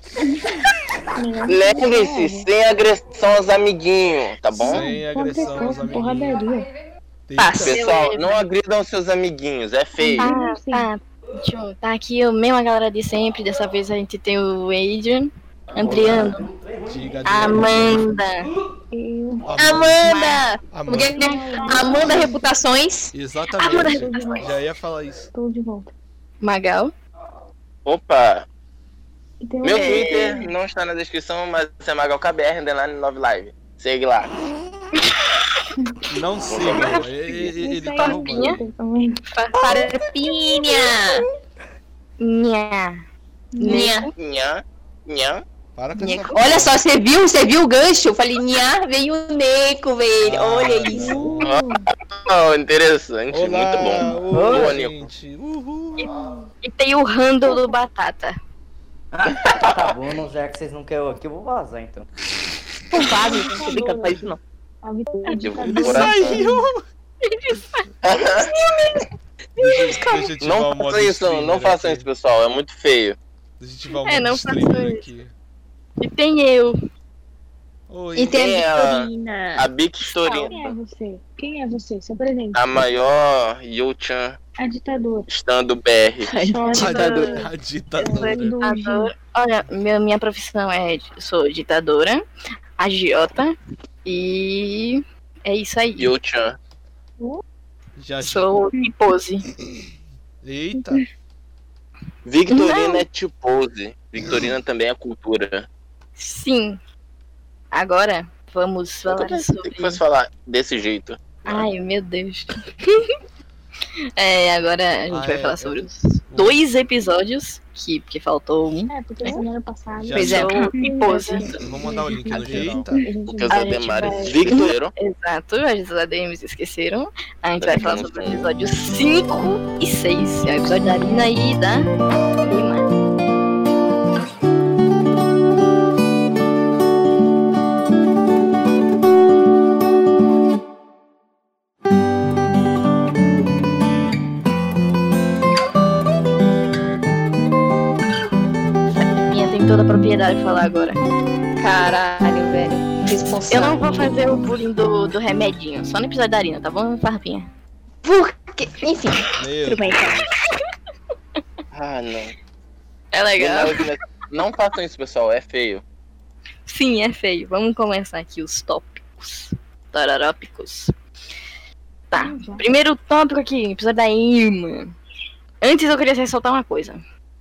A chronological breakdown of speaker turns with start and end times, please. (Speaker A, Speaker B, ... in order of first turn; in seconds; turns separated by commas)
Speaker A: 0.2-0.6, Speaker A: 1.1-2.5, Speaker B: 1.5-4.9, Speaker C: 4.5-6.4, Speaker A: 4.6-6.7, Speaker C: 7.3-7.8, Speaker D: 7.4-7.8, Speaker E: 7.7-8.4, Speaker B: 7.7-10.3, Speaker A: 10.0-10.9, Speaker E: 10.2-16.5, Speaker C: 15.8-16.3, Speaker C: 16.9-18.2, Speaker E: 17.2-18.5, Speaker A: 18.9-19.5, Speaker C: 19.4-20.2, Speaker D: 19.6-23.1, Speaker E: 20.1-20.4, Speaker C: 20.7-21.3, Speaker A: 21.0-22.4, Speaker E: 21.5-22.1, Speaker C: 21.9-22.3, Speaker C: 23.1-25.3, Speaker E: 23.6-24.5, Speaker A: 23.9-24.5, Speaker A: 25.3-25.9, Speaker E: 26.4-26.9, Speaker B: 27.8-28.5, Speaker A: 29.4-30.4, Speaker B: 29.6-34.3, Speaker E: 29.8-30.3, Speaker C: 36.1-38.7, Speaker B: 36.5-37.0, Speaker E: 36.6-37.0, Speaker A: 37.3-39.2, Speaker E: 38.0-38.6, Speaker E: 39.3-39.9, Speaker D: 39.6-41.2, Speaker E: 40.6-41.2, Speaker E: 42.2-43.0, Speaker A: 43.5-43.9, Speaker E: 43.6-44.1, Speaker D: 43.6-44.1, Speaker B: 44.2-45.4, Speaker C: 45.8-46.8, Speaker A: 46.0-46.2, Speaker E: 46.0-46.3, Speaker D: 46.3-51.2, Speaker C: 50.2-51.5, Speaker A: 50.9-51.9, Speaker B: 51.4-55.1, Speaker C: 53.3-56.4, Speaker F: 54.3-54.7, Speaker E: 56.0-58.4, Speaker A: 57.5-57.8, Speaker F: 59.1-62.0, Speaker B: 59.5-59.8, Speaker D: 62.9-64.4, Speaker A: 63.2-64.2, Speaker A: 64.8-66.6, Speaker B: 65.4-66.4, Speaker C: 65.6-66.8, Speaker E: 67.2-67.8, Speaker B: 68.0-68.5, Speaker E: 68.4-68.9, Speaker C: 69.6-72.1, Speaker B: 70.4-73.2, Speaker C: 73.6-75.3, Speaker E: 74.0-75.1, Speaker E: 76.0-76.8, Speaker C: 77.9-78.4, Speaker D: 78.2-79.7, Speaker B: 78.3-80.7, Speaker E: 80.2-80.5, Speaker A: 80.5-82.6, Speaker B: 82.5-84.4, Speaker A: 84.6-85.3, Speaker B: 85.3-86.3, Speaker D: 86.2-87.3, Speaker A: 86.4-87.5, Speaker E: 86.7-87.4, Speaker C: 86.8-88.5, Speaker A: 88.0-89.1, Speaker E: 88.1-92.2, Speaker E: 92.8-96.1, Speaker B: 96.0-96.6, Speaker C: 98.0-98.5, Speaker E: 98.2-99.4, Speaker C: 100.4-101.0, Speaker B: 102.2-105.7, Speaker E: 102.5-103.0, Speaker E: 106.2-106.8, Speaker E: 107.7-110.0, Speaker B: 109.1-111.7, Speaker E: 111.5-113.1, Speaker E: 114.2-119.4, Speaker C: 115.1-116.6, Speaker A: 118.9-124.3, Speaker C: 120.0-120.6, Speaker D: 120.2-120.5, Speaker E: 120.2-121.5, Speaker C: 121.6-123.0, Speaker B: 122.3-122.7, Speaker B: 123.2-124.9, Speaker E: 123.5-131.9, Speaker B: 127.6-128.5, Speaker E: 132.4-132.9, Speaker E: 149.0-151.0, Speaker D: 151.6-154.4, Speaker E: 153.5-157.5, Speaker D: 158.0-160.2, Speaker C: 159.3-160.4, Speaker B: 161.7-162.3, Speaker E: 163.1-163.8, Speaker B: 163.4-165.8, Speaker E: 166.7-170.9, Speaker E: 172.1-174.9, Speaker A: 172.1-172.7, Speaker E: 175.6-177.0